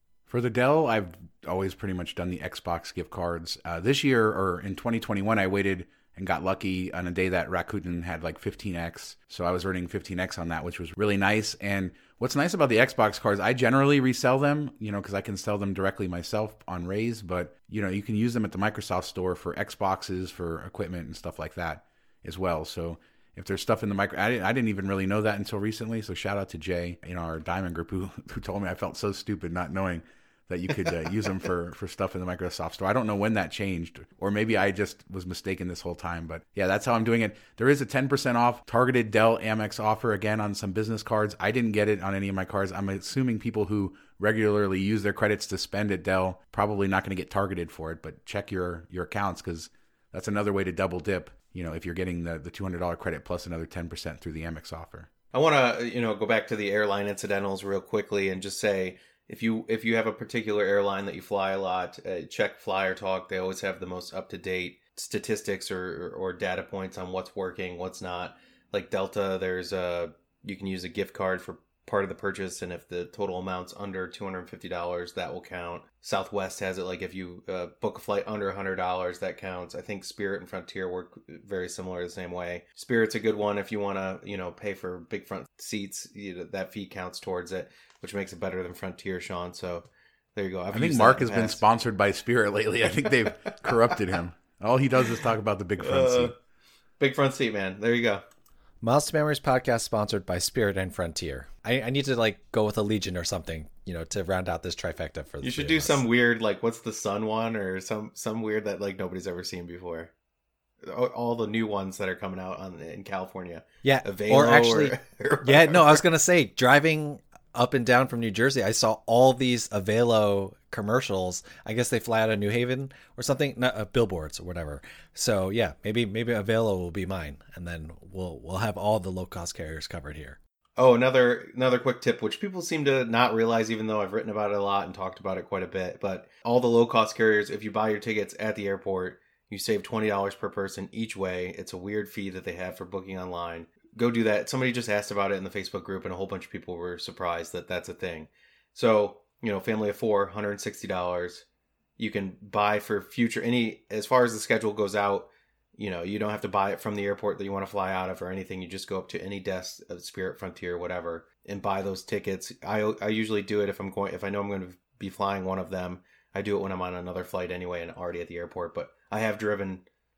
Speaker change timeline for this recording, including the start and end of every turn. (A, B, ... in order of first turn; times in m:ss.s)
0:00.3-0:55.1 A
0:55.3-1:31.6 B
1:30.7-1:36.3 A
1:35.8-1:36.3 B
1:37.0-1:38.2 B
1:38.8-1:46.0 C
1:45.4-1:50.1 B
1:50.8-1:56.0 B
1:53.8-2:10.4 C
2:10.8-2:31.4 B
2:32.0-2:49.8 B